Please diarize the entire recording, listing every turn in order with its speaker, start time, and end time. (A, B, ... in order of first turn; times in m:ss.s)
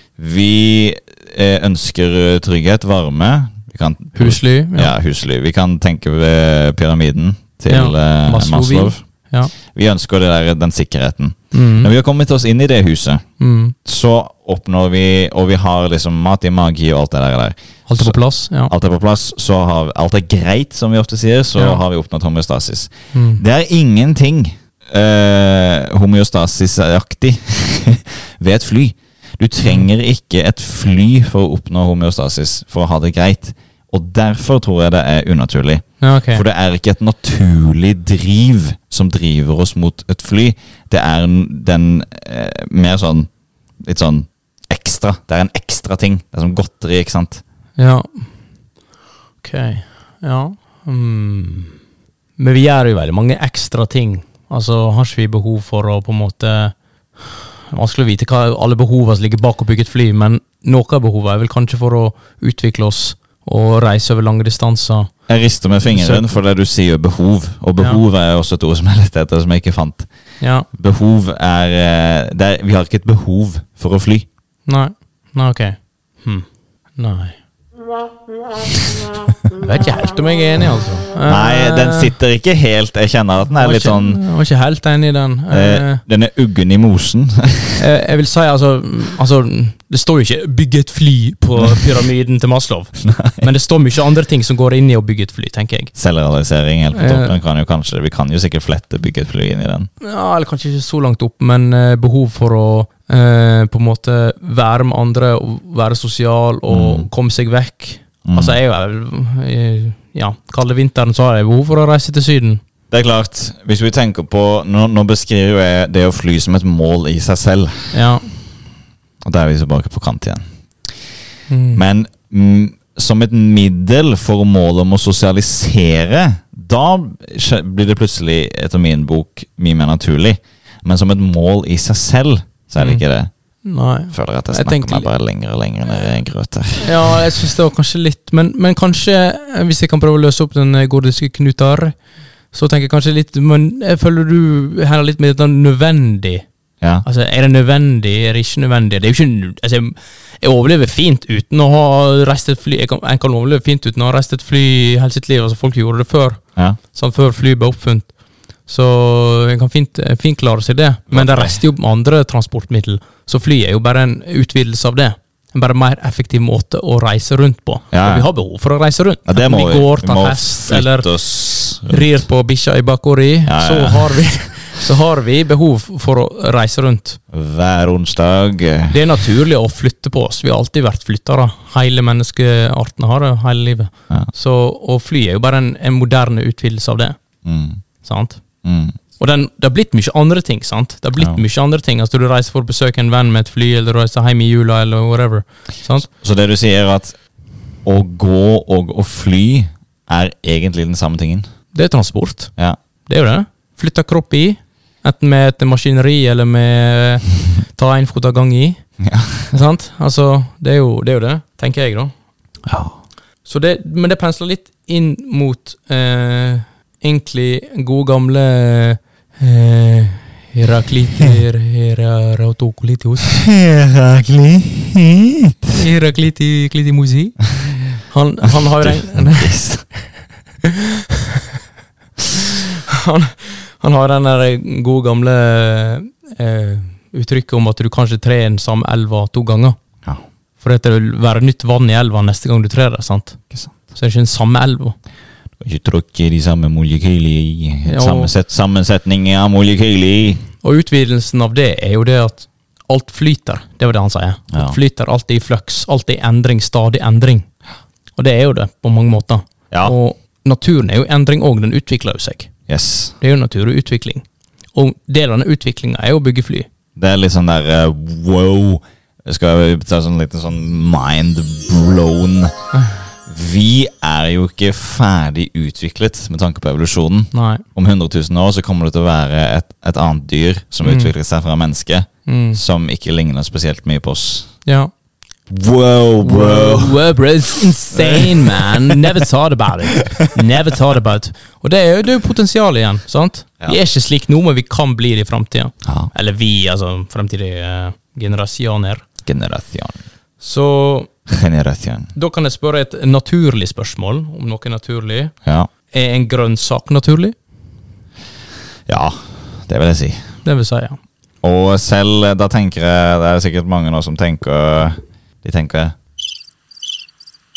0:00.2-0:09.0 A
0:04.1-0:04.9 B
0:07.7-0:09.5 B
0:09.7-0:13.2 A
0:11.5-0:11.9 B
0:13.4-0:13.7 B
0:13.8-0:18.1 A
0:17.9-0:18.7 B
0:18.7-0:43.3 A
0:23.1-0:23.4 B
0:36.0-0:36.4 B
0:43.8-0:47.4 A
0:47.8-0:48.2 B
0:49.4-0:51.8 B
0:52.4-1:05.1 B
1:05.3-1:10.1 A
1:05.9-1:06.3 B
1:10.4-1:10.7 B
1:10.7-1:14.2 A
1:14.7-1:16.4 B
1:17.0-1:17.4 B
1:19.5-1:22.1 B
1:21.2-1:24.2 A
1:23.5-1:26.0 B
1:25.5-1:27.8 A
1:27.8-1:35.9 B
1:33.1-1:33.4 A
1:35.9-1:39.9 A
1:36.9-1:37.4 B
1:40.0-1:52.6 B
1:46.7-1:47.1 A
1:48.2-1:48.6 A
1:52.9-1:58.0 A
1:57.9-1:58.3 B
1:59.2-2:00.4 A
2:01.5-2:01.8 B
2:01.7-2:13.3 A
2:13.6-2:15.1 B
2:14.1-2:17.2 A
2:16.8-2:22.0 B
2:22.5-2:26.4 B
2:27.0-2:36.4 B
2:36.9-2:38.1 B
2:38.7-2:51.1 B
2:41.1-2:41.6 A
2:47.9-2:48.2 A
2:49.3-2:52.1 A
2:51.8-2:57.2 B
2:53.5-2:54.2 A
2:57.3-2:59.0 A
2:58.9-3:07.2 B
3:07.4-3:07.8 A
3:08.0-3:08.4 B
3:08.6-3:08.9 A
3:09.2-3:16.1 B
3:16.1-3:17.2 A
3:17.8-3:21.5 A
3:21.7-3:22.5 B
3:23.0-3:28.8 B
3:29.0-3:29.5 A
3:29.5-3:32.1 B
3:32.7-3:33.0 A
3:33.4-3:43.4 B
3:43.3-3:45.7 A
3:45.7-3:47.4 B
3:48.1-3:49.6 B
3:48.6-3:49.9 A
3:50.6-3:51.4 B
3:52.3-3:59.8 B
4:00.6-4:03.4 B
4:03.9-4:05.0 B
4:05.6-4:10.4 A
4:07.8-4:08.3 B
4:10.6-4:17.5 B
4:14.5-4:14.8 A
4:18.2-4:22.5 B
4:22.7-4:23.1 A
4:23.2-4:24.2 B
4:24.7-4:26.7 B
4:27.0-4:32.5 A
4:32.7-4:33.0 B
4:33.2-4:44.5 A
4:37.3-4:37.6 B
4:40.8-4:41.1 B
4:42.2-4:42.6 B
4:44.6-4:44.9 B
4:45.5-4:47.0 A
4:46.2-4:59.0 B
4:47.9-4:49.1 A
4:55.8-4:56.1 A
4:59.2-5:00.0 A
5:00.4-5:01.1 B
5:01.3-5:02.1 A
5:02.1-5:05.3 B
5:05.4-5:05.7 A
5:05.9-5:07.3 B
5:08.9-5:10.2 A
5:10.4-5:11.0 B
5:11.4-5:15.9 A